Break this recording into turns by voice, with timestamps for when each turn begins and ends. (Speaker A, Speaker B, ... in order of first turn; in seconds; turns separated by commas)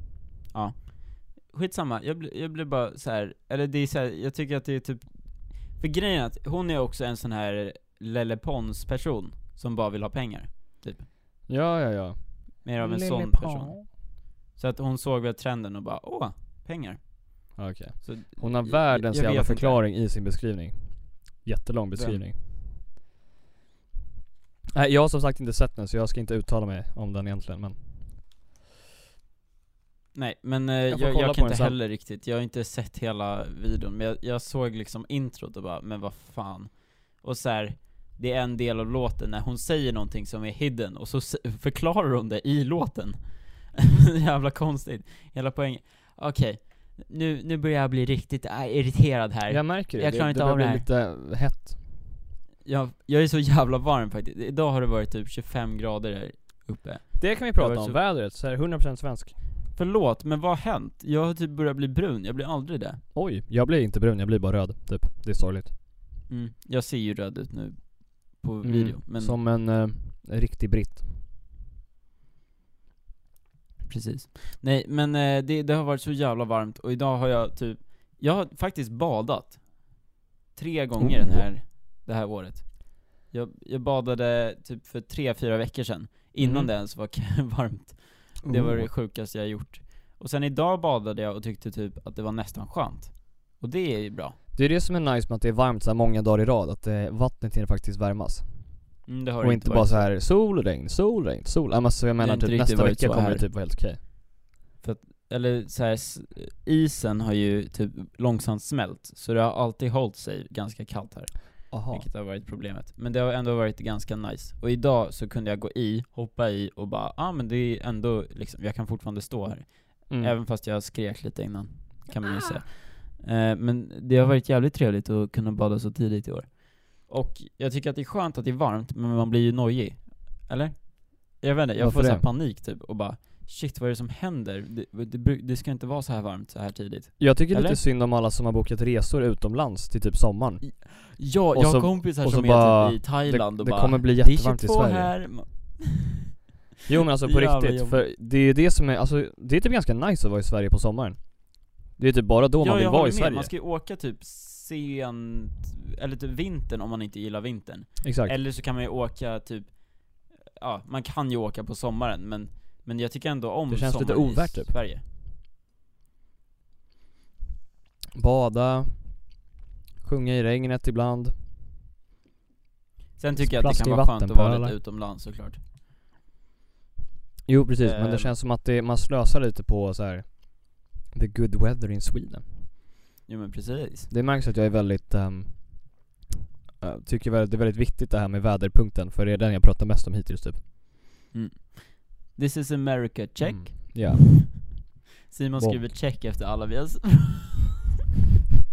Speaker A: 0.5-11.1, Speaker B: 11.5-13.9, Speaker A: 12.6-14.0, Speaker A: 14.6-19.8, Speaker B: 17.6-22.4, Speaker A: 21.9-22.2, Speaker B: 24.7-28.1, Speaker A: 30.1-50.9, Speaker B: 30.9-31.8, Speaker B: 49.5-51.8, Speaker A: 52.6-58.0, Speaker B: 57.2-59.4, Speaker A: 59.8-63.0, Speaker B: 63.1-65.7, Speaker A: 66.3-69.4, Speaker B: 68.6-71.1, Speaker A: 73.9-94.4, Speaker B: 81.0-81.5, Speaker B: 86.4-86.7, Speaker B: 88.4-88.9, Speaker B: 94.5-104.0, Speaker A: 99.1-100.1, Speaker A: 102.2-103.5, Speaker A: 104.8-137.8, Speaker B: 111.7-112.1, Speaker B: 120.1-120.3, Speaker B: 131.8-132.3, Speaker B: 137.2-145.2, Speaker A: 140.6-146.4, Speaker B: 146.9-153.5, Speaker A: 147.2-148.0, Speaker A: 152.6-165.0, Speaker B: 158.0-158.4, Speaker B: 163.7-164.8, Speaker B: 168.2-171.4, Speaker A: 173.2-175.6, Speaker B: 173.4-174.8, Speaker B: 177.5-182.6, Speaker A: 177.8-178.3, Speaker A: 183.3-184.1, Speaker B: 184.1-186.1, Speaker B: 186.8-190.6, Speaker A: 191.3-194.5, Speaker B: 193.4-194.9, Speaker A: 195.3-197.7, Speaker B: 195.6-195.9